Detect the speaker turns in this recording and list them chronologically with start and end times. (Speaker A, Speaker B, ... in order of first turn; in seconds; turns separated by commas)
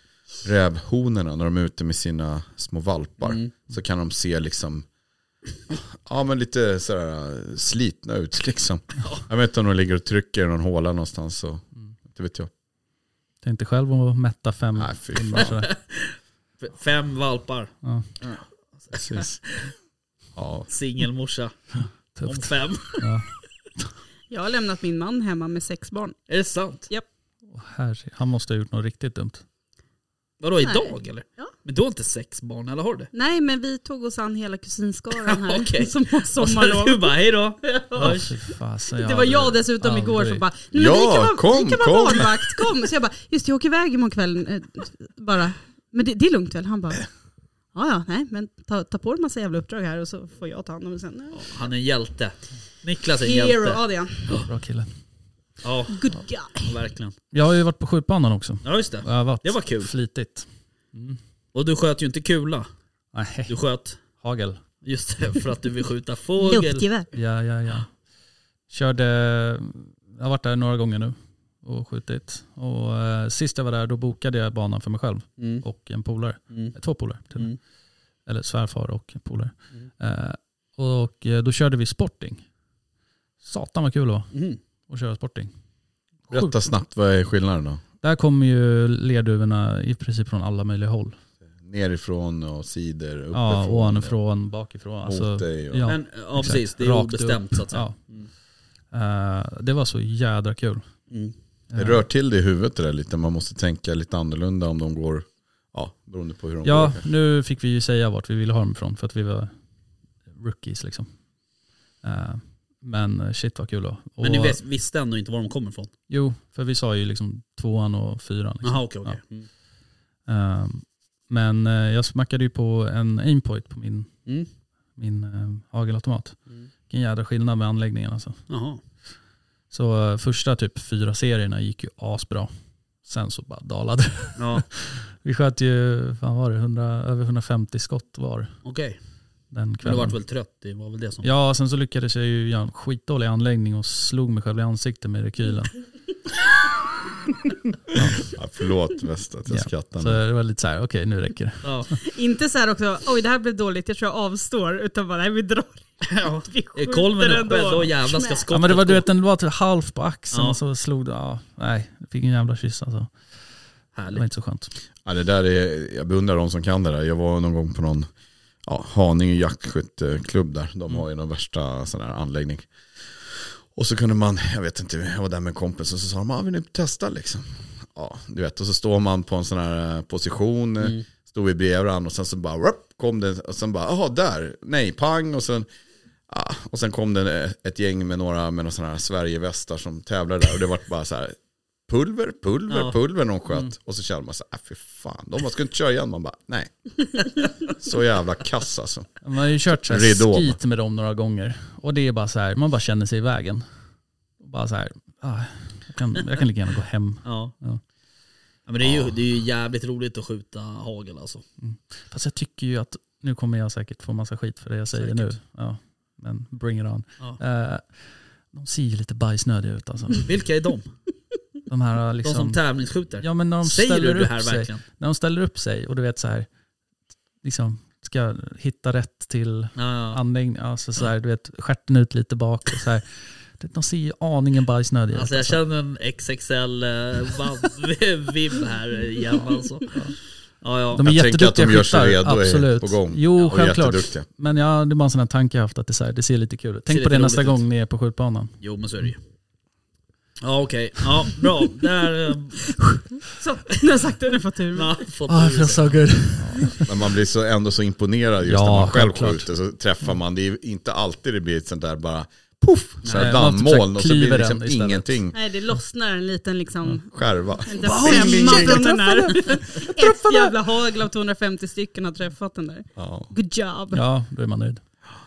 Speaker A: 0.4-4.8, Speaker B: 3.2-3.5, Speaker A: 5.7-12.5, Speaker C: 13.4-15.7, Speaker A: 14.8-15.5, Speaker B: 15.3-19.7, Speaker C: 17.8-18.1, Speaker A: 18.9-19.4, Speaker A: 20.3-20.7, Speaker B: 20.7-23.1, Speaker C: 21.8-23.3, Speaker D: 24.3-26.2, Speaker B: 26.3-26.9, Speaker C: 27.5-29.4, Speaker B: 30.4-33.1, Speaker D: 30.6-31.5, Speaker D: 33.1-38.2, Speaker B: 35.2-38.3, Speaker C: 38.0-40.4, Speaker D: 39.0-47.1, Speaker A: 40.7-42.6, Speaker D: 47.7-51.6, Speaker B: 51.3-54.5, Speaker D: 53.2-54.4, Speaker C: 54.5-54.9, Speaker B: 55.6-57.1, Speaker D: 55.9-56.8, Speaker C: 57.3-61.2, Speaker B: 58.6-59.9, Speaker B: 61.5-62.7, Speaker C: 63.1-63.5, Speaker B: 63.5-64.0, Speaker C: 64.2-64.6, Speaker B: 64.8-66.8, Speaker D: 66.4-67.1, Speaker C: 67.1-68.0, Speaker C: 68.7-77.5, Speaker B: 75.4-75.6, Speaker B: 76.5-76.8, Speaker C: 78.2-82.5, Speaker C: 83.4-84.3, Speaker B: 84.3-84.6, Speaker C: 84.9-85.5, Speaker C: 86.3-86.5, Speaker A: 86.3-87.8, Speaker C: 88.0-91.2, Speaker A: 91.6-94.1, Speaker C: 93.3-98.0, Speaker A: 95.0-95.9, Speaker B: 95.8-98.3, Speaker C: 98.9-100.9, Speaker C: 101.7-102.0, Speaker A: 101.7-107.0, Speaker C: 106.6-109.5, Speaker C: 110.3-111.1, Speaker C: 112.0-114.6, Speaker B: 114.2-115.9, Speaker C: 116.1-119.2, Speaker B: 118.6-119.5, Speaker C: 120.2-124.2, Speaker C: 124.9-128.5, Speaker B: 128.5-128.8, Speaker C: 129.7-132.5, Speaker C: 133.0-138.5, Speaker B: 134.3-134.7, Speaker B: 138.6-139.0, Speaker C: 139.5-140.2, Speaker B: 139.8-141.3, Speaker C: 141.2-145.7, Speaker C: 147.9-148.2, Speaker A: 147.9-150.2, Speaker C: 149.5-151.7, Speaker B: 151.6-151.9, Speaker D: 152.0-158.4, Speaker B: 156.1-159.1, Speaker C: 158.5-163.1, Speaker B: 160.3-160.6, Speaker B: 163.9-164.2, Speaker C: 164.1-164.7, Speaker A: 165.0-168.1, Speaker A: 168.6-185.7, Speaker A: 186.3-191.3, Speaker A: 191.9-199.1, Speaker B: 192.7-192.9, Speaker C: 199.2-203.7, Speaker A: 199.7-200.6, Speaker C: 204.4-207.8, Speaker B: 207.2-207.5, Speaker B: 208.7-211.4, Speaker A: 208.8-209.1, Speaker C: 211.6-220.3, Speaker B: 214.9-215.3, Speaker B: 220.2-220.9, Speaker C: 221.7-222.6, Speaker B: 222.2-224.8, Speaker C: 223.2-226.5, Speaker C: 227.4-235.6, Speaker B: 229.8-230.2, Speaker B: 235.1-241.0, Speaker C: 240.9-248.5, Speaker A: 241.0-244.2, Speaker B: 246.9-247.6, Speaker B: 248.6-249.2, Speaker B: 250.4-252.8, Speaker D: 253.3-255.0, Speaker B: 254.7-256.1, Speaker C: 255.3-256.9, Speaker A: 256.8-265.4, Speaker C: 258.4-259.5, Speaker B: 263.0-263.3, Speaker C: 263.1-265.2, Speaker D: 265.3-274.0, Speaker A: 267.1-268.9, Speaker C: 267.8-270.3, Speaker A: 272.9-273.3, Speaker C: 273.9-274.8